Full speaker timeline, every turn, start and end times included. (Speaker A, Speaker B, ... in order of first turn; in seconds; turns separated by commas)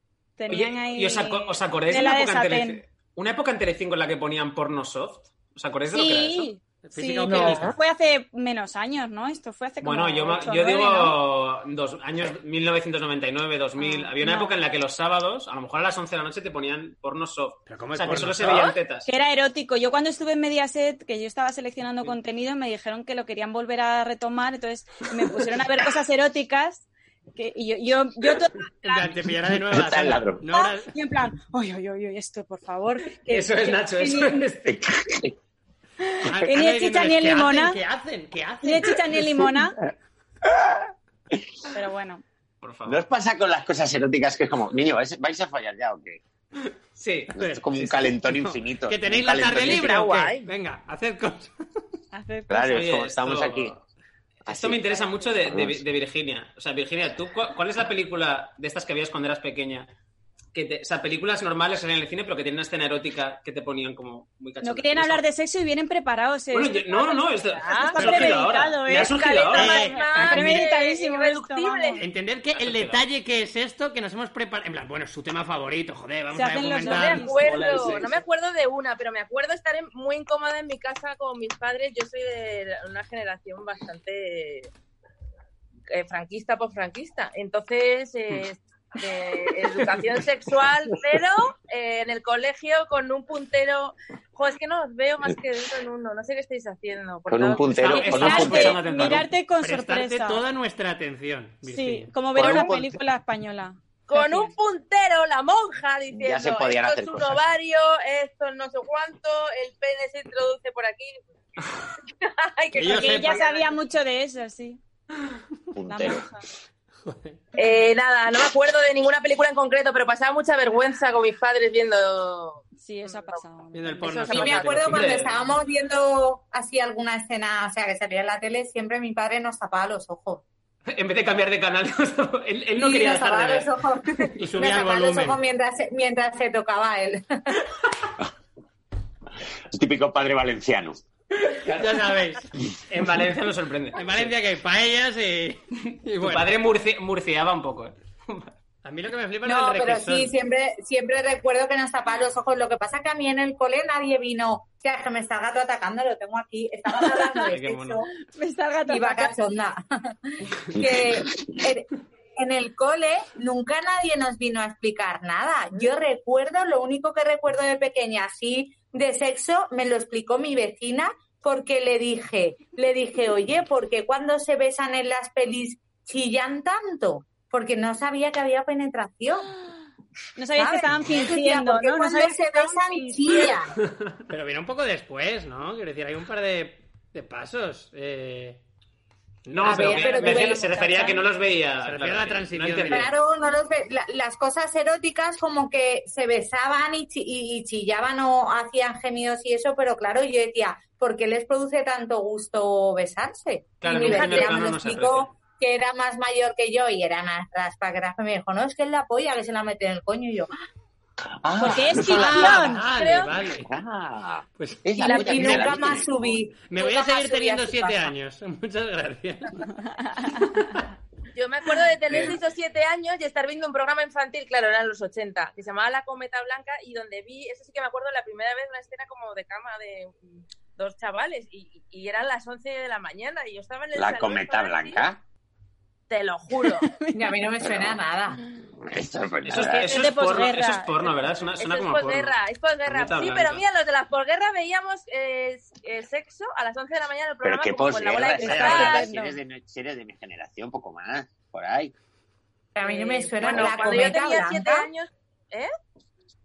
Speaker A: 0.4-2.8, Speaker B: 0.5-6.5, Speaker A: 5.9-11.2, Speaker C: 6.8-7.8, Speaker D: 7.3-7.8, Speaker B: 9.8-19.1, Speaker A: 13.8-14.6, Speaker C: 17.7-18.8, Speaker A: 19.1-29.1, Speaker C: 28.8-30.9, Speaker E: 29.7-30.4, Speaker A: 30.5-34.4, Speaker B: 33.3-34.8, Speaker E: 34.6-35.4, Speaker A: 36.1-37.8, Speaker C: 36.2-39.2, Speaker A: 38.6-39.8, Speaker E: 40.5-40.8, Speaker A: 41.7-42.2, Speaker B: 42.6-43.0, Speaker E: 42.9-46.2, Speaker B: 46.7-47.9, Speaker E: 47.4-50.0, Speaker C: 47.4-51.5, Speaker D: 49.7-50.5, Speaker A: 52.1-52.8, Speaker E: 52.5-53.7, Speaker B: 52.6-53.8, Speaker B: 54.5-59.9, Speaker E: 54.5-54.9, Speaker E: 55.5-55.8, Speaker B: 60.5-65.2, Speaker A: 64.6-72.0, Speaker B: 66.5-69.7, Speaker D: 67.6-68.2, Speaker C: 68.0-68.5, Speaker D: 68.9-72.0, Speaker C: 69.5-70.6, Speaker C: 72.0-78.2, Speaker B: 72.5-73.0, Speaker A: 76.3-77.7, Speaker D: 76.9-84.7, Speaker B: 77.5-78.2, Speaker D: 85.9-98.7, Speaker B: 89.7-90.0, Speaker E: 97.3-98.8, Speaker B: 97.7-99.3, Speaker A: 98.1-100.4, Speaker C: 99.6-102.2, Speaker A: 101.7-104.5, Speaker E: 102.3-103.0, Speaker D: 104.1-111.2, Speaker E: 106.1-107.4, Speaker D: 112.1-113.8, Speaker C: 112.8-113.4, Speaker A: 112.8-114.8, Speaker E: 115.7-116.3, Speaker A: 115.9-116.4, Speaker C: 117.1-117.4, Speaker D: 117.6-123.4, Speaker A: 122.8-124.6, Speaker C: 123.7-125.2, Speaker D: 124.1-124.6, Speaker F: 124.3-130.4, Speaker B: 124.8-125.3, Speaker B: 130.9-133.7, Speaker F: 132.8-137.7, Speaker C: 134.4-135.4, Speaker E: 139.7-141.0, Speaker C: 141.7-142.5, Speaker B: 142.9-144.3, Speaker C: 143.9-146.6, Speaker B: 146.2-148.5, Speaker C: 148.8-150.3, Speaker F: 149.4-158.1, Speaker A: 157.0-157.4, Speaker B: 157.4-158.1, Speaker A: 158.2-159.3, Speaker F: 158.9-179.5, Speaker A: 180.4-183.3, Speaker F: 180.6-183.7, Speaker B: 183.9-184.2, Speaker C: 184.3-188.6, Speaker B: 189.5-193.1, Speaker C: 189.6-190.2, Speaker F: 189.6-191.2, Speaker A: 189.9-191.1, Speaker C: 191.8-193.1, Speaker F: 192.9-210.5, Speaker B: 203.8-205.3, Speaker D: 204.0-204.5, Speaker E: 211.4-212.7, Speaker A: 211.6-212.9, Speaker C: 211.9-213.7, Speaker D: 212.8-213.4, Speaker E: 213.6-216.4, Speaker C: 214.6-215.9, Speaker F: 215.0-218.1, Speaker D: 215.1-215.7, Speaker C: 216.6-220.5, Speaker D: 221.3-235.0, Speaker E: 233.9-235.2, Speaker D: 236.1-236.9, Speaker A: 236.7-237.5, Speaker F: 237.1-238.4, Speaker E: 237.7-238.0, Speaker E: 238.8-239.9, Speaker B: 239.5-242.3, Speaker A: 239.7-241.2, Speaker D: 241.6-249.1, Speaker B: 242.9-243.6, Speaker E: 247.4-251.9, Speaker A: 248.4-249.4, Speaker C: 248.4-248.9, Speaker F: 252.8-254.9, Speaker D: 252.8-255.7